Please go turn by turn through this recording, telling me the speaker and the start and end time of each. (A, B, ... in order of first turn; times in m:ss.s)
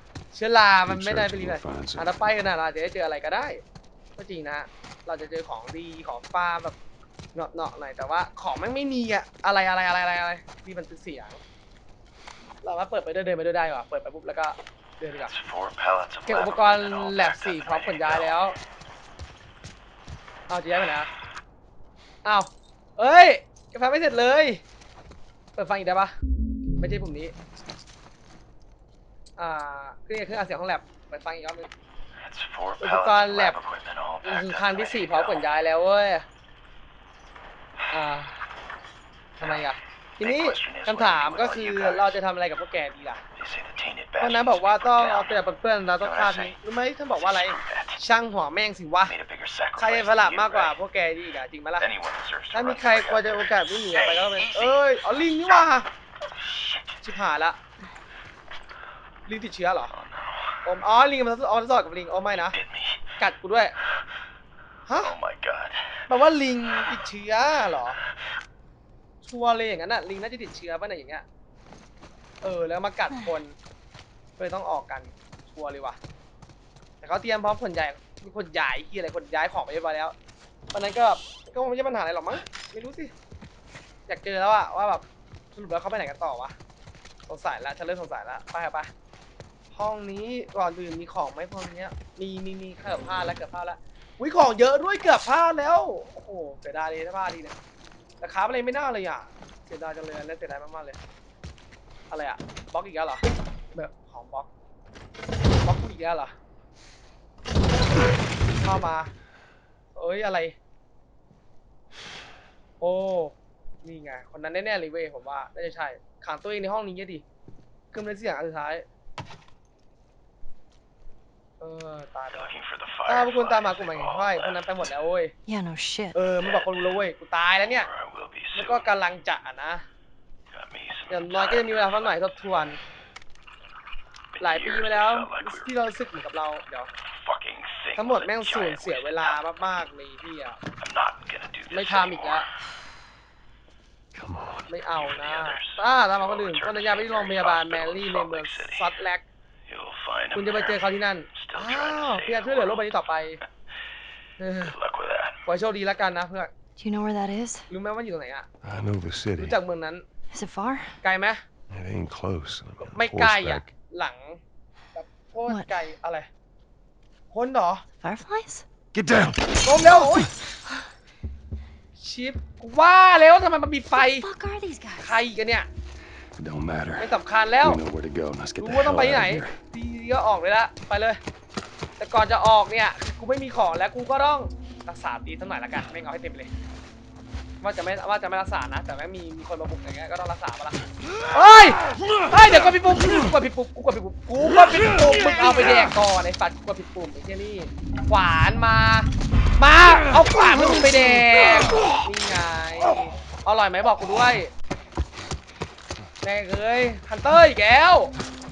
0:00.3-0:03.6 A
0:00.9-0:02.2 B
0:04.2-0:06.8 A
0:07.4-0:11.4 A
0:12.6-0:15.3 A
0:15.2-0:18.5 C
0:16.3-0:18.6 A
0:20.5-0:21.1 A
0:22.2-0:24.6 A
0:25.6-0:26.2 A
0:26.8-0:27.3 A
0:29.4-0:31.7 A
0:32.2-0:35.4 C
0:32.8-0:33.6 A
0:34.2-0:36.2 A
0:37.9-0:38.4 A
0:39.4-0:43.2 A
0:40.2-0:42.1 C
0:43.4-0:45.4 C
0:44.2-0:49.1 A
0:46.0-0:46.6 C
0:47.2-0:48.0 C
0:49.0-0:50.8 C
0:49.8-0:51.9 A
0:51.8-0:54.9 C
0:52.5-0:55.9 A
0:56.3-0:57.0 C
0:57.0-0:57.6 A
0:59.3-0:59.9 A
0:59.9-1:00.6 C
1:00.6-1:02.6 A
1:02.3-1:03.0 C
1:03.2-1:03.8 A
1:04.9-1:05.2 A
1:05.0-1:06.0 C
1:06.1-1:08.0 A
1:09.2-1:11.2 A
1:12.4-1:13.5 A
1:14.4-1:16.0 A
1:17.0-1:20.2 A
1:20.7-1:23.1 A
1:24.1-1:26.6 A
1:27.3-1:28.9 A
1:29.7-1:37.6 A
1:38.2-1:41.0 A
1:42.1-1:44.5 A
1:45.6-1:46.3 A
1:48.6-1:49.1 A
1:50.0-1:50.6 A
1:52.8-1:57.2 A
1:57.9-1:58.8 A
2:01.6-2:02.5 A
2:02.3-2:04.9 C
2:03.1-2:05.3 A
2:05.5-2:06.2 D
2:06.2-2:07.9 A
2:06.4-2:07.0 C
2:07.6-2:08.9 C
2:08.6-2:09.8 A
2:10.5-2:12.2 C
2:11.1-2:12.8 A
2:14.4-2:15.7 C
2:14.4-2:16.9 A
2:17.1-2:19.4 C
2:18.0-2:20.6 A
2:20.8-2:22.4 C
2:21.7-2:22.5 A
2:24.1-2:24.6 B
2:24.7-2:29.2 A
2:25.0-2:28.9 C
2:29.7-2:33.0 C
2:30.3-2:33.4 A
2:34.4-2:34.8 A
2:34.6-2:35.4 C
2:35.4-2:36.5 A
2:36.8-2:37.7 D
2:37.7-2:38.5 A
2:38.6-2:39.6 B
2:39.4-2:40.0 A
2:40.3-2:41.0 D
2:41.0-2:41.4 A
2:41.7-2:43.7 B
2:42.8-2:44.4 A
2:45.0-2:46.3 A
2:47.3-2:47.8 A
2:48.0-2:48.6 D
2:48.9-2:49.5 B
2:49.6-2:50.3 A
2:52.0-2:54.3 A
2:53.9-2:55.2 D
2:55.0-2:55.7 A
2:56.4-2:59.5 B
2:57.0-2:57.8 A
2:58.6-3:01.2 A
3:02.0-3:06.5 A
3:07.6-3:10.8 A
3:11.3-3:24.5 A
3:26.2-3:28.1 A